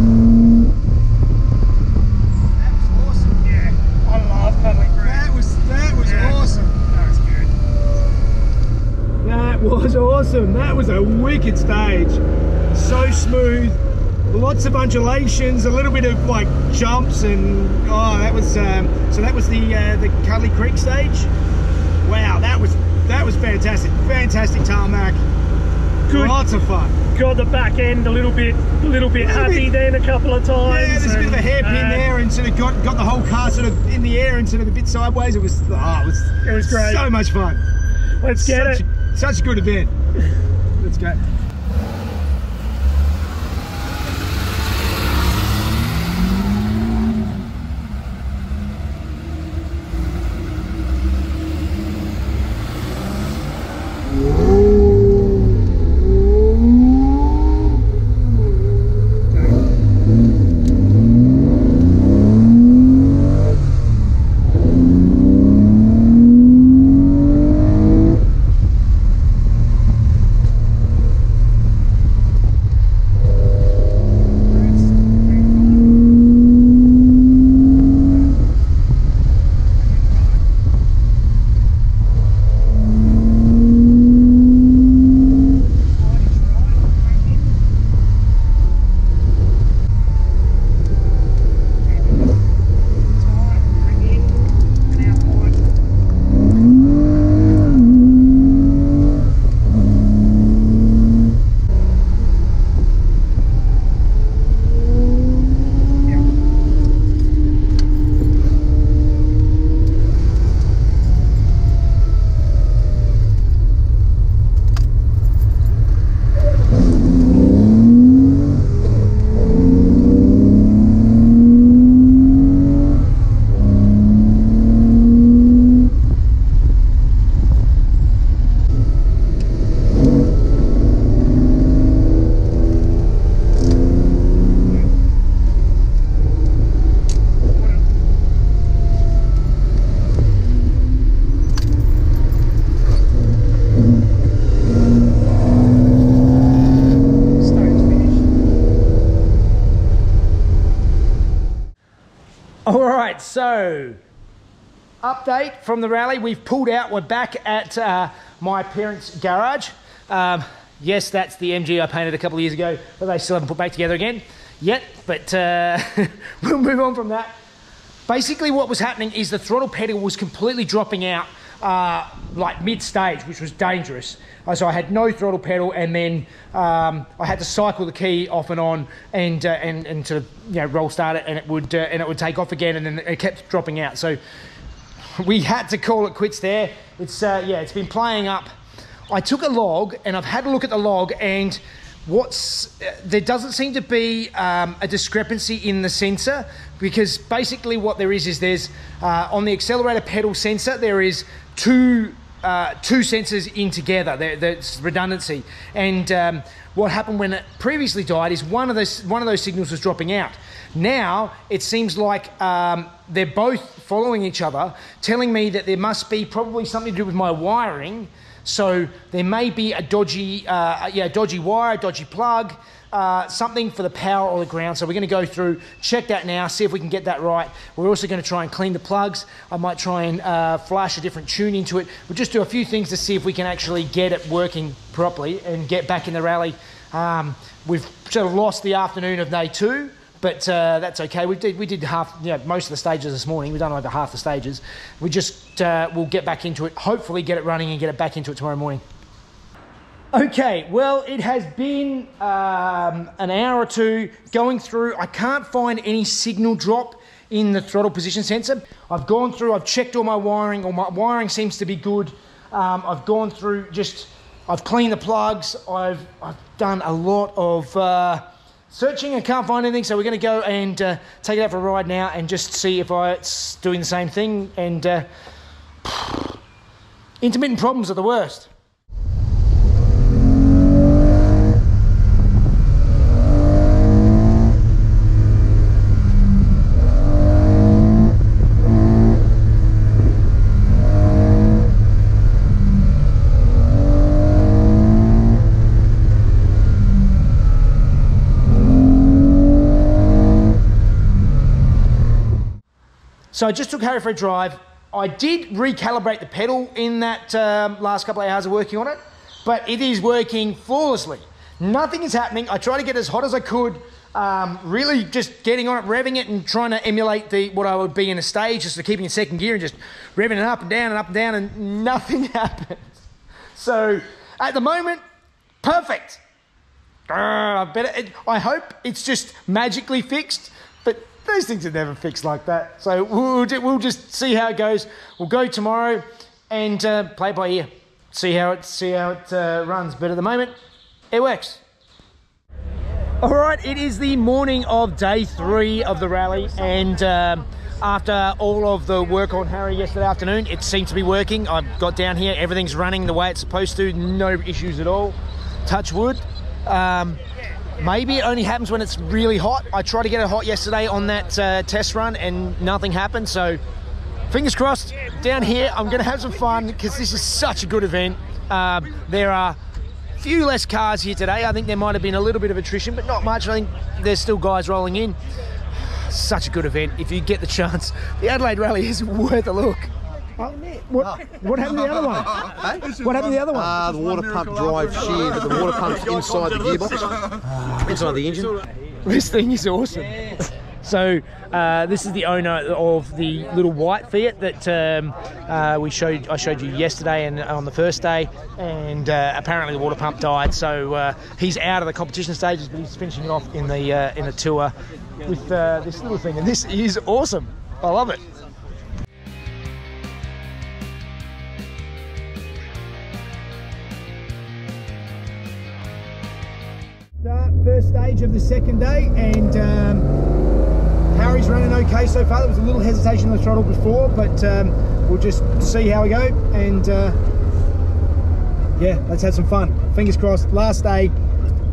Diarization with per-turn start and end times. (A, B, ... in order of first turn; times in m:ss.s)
0:02.6-0:03.4 A
0:03.4-0:05.3 B
0:05.0-0:06.7 A
0:06.0-0:07.6 B
0:09.2-0:12.2 A
0:12.7-0:21.3 A
0:22.0-0:25.2 A
0:26.1-0:26.4 B
0:26.1-0:27.0 A
0:27.1-0:32.1 B
0:29.2-0:29.7 A
0:30.6-0:37.6 A
0:36.4-0:37.1 B
0:38.2-0:38.8 B
0:38.3-0:39.9 A
0:40.8-0:41.2 A
1:14.4-1:16.2 B
1:18.0-1:18.4 B
1:19.7-1:20.5 B
1:25.9-1:27.6 B
1:33.1-1:35.6 B
2:17.5-2:17.9 B
2:27.4-2:28.3 B
2:32.6-2:34.0 A
2:35.0-2:47.4 A
2:48.1-3:04.2 A
3:05.2-3:08.5 A
3:09.1-4:08.8 A
4:10.1-4:35.1 A
4:35.8-4:36.3 A
4:37.2-4:38.5 A
5:03.3-5:23.0 A
5:23.5-5:25.0 A
5:25.6-5:26.2 A
5:27.1-5:40.5 A
5:41.1-5:41.6 A
5:43.2-5:57.2 A
5:57.8-6:03.6 A
6:04.3-6:09.6 A
6:05.0-6:07.2 B
6:10.2-6:15.2 A
6:15.9-6:22.4 A
6:22.6-6:22.9 C
6:22.9-6:23.7 A
6:23.5-6:27.2 C
6:27.5-6:28.0 A
6:27.8-6:28.6 C
6:29.0-6:48.2 A
6:57.2-7:00.1 A
7:01.1-7:07.2 A
7:08.8-7:11.1 A